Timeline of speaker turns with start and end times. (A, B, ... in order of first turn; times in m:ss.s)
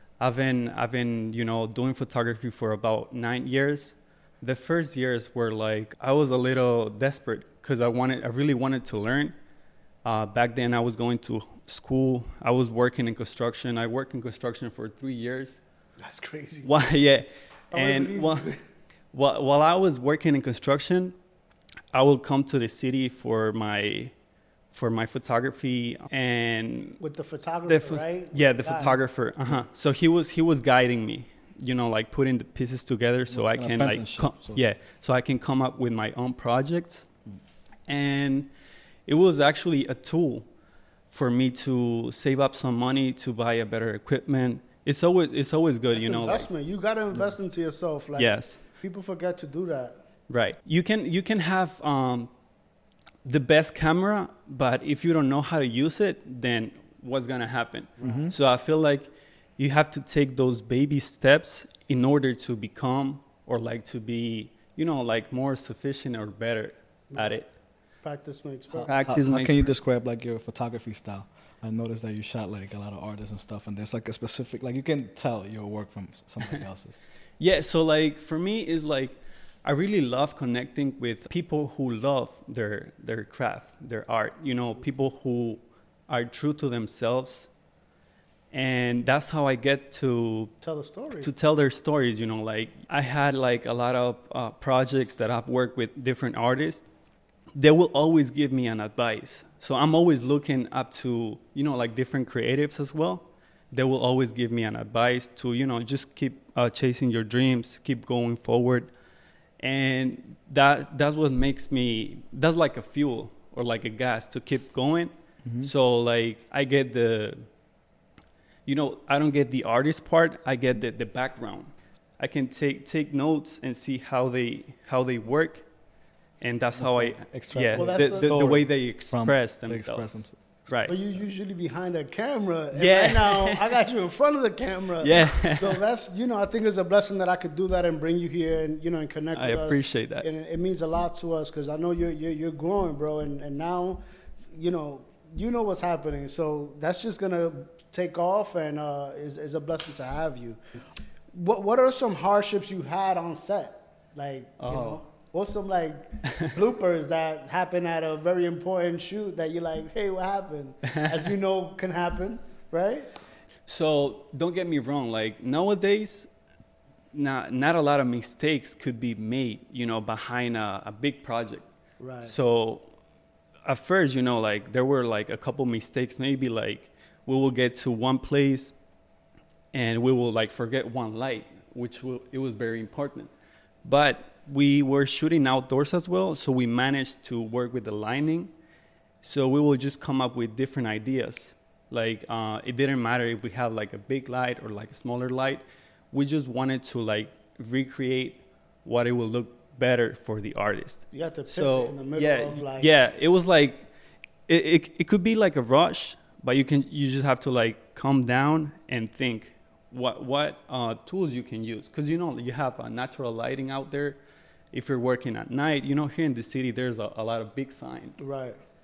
0:00.2-0:09.3 A
0:10.0-0:15.6 A
0:16.0-0:16.7 B
0:16.6-0:18.5 A
0:17.7-0:18.6 B
0:19.1-0:21.1 A
0:21.9-0:24.1 A
0:24.7-0:27.0 A
0:27.0-0:29.0 B
0:27.7-0:37.0 A
0:33.3-0:34.6 C
0:37.9-0:38.5 A
0:39.1-0:40.4 A
0:41.1-0:46.5 A
0:45.9-0:50.0 B
0:48.2-0:48.6 A
0:50.3-0:52.3 A
0:53.2-1:07.5 A
0:58.0-0:58.3 B
0:58.0-0:58.3 C
1:07.1-1:07.4 B
1:08.0-1:08.9 B
1:08.7-1:17.0 C
1:08.8-1:09.7 A
1:17.4-1:27.5 A
1:28.5-1:30.5 A
1:30.6-1:31.3 B
1:31.2-1:36.9 A
1:37.5-1:48.9 A
1:49.6-1:57.4 A
1:55.4-1:55.7 C
1:58.6-2:05.6 A
2:06.4-2:10.9 A
2:06.7-2:10.7 C
2:07.7-2:08.5 B
2:10.8-2:24.0 B
2:12.7-2:13.8 A
2:15.0-2:15.8 A
2:19.3-2:20.2 A
2:24.5-2:30.6 B
2:31.3-2:43.1 B
2:34.6-2:35.0 A
2:43.7-2:46.3 A
2:47.1-2:51.6 A
2:52.0-2:52.3 B
2:52.2-2:52.8 A
2:53.6-2:58.7 A
2:59.7-3:03.3 A
3:03.8-3:08.5 A
3:09.2-3:23.9 A
3:21.1-3:22.9 B
3:24.5-3:34.2 A
3:34.7-3:38.2 A
3:38.2-3:38.6 B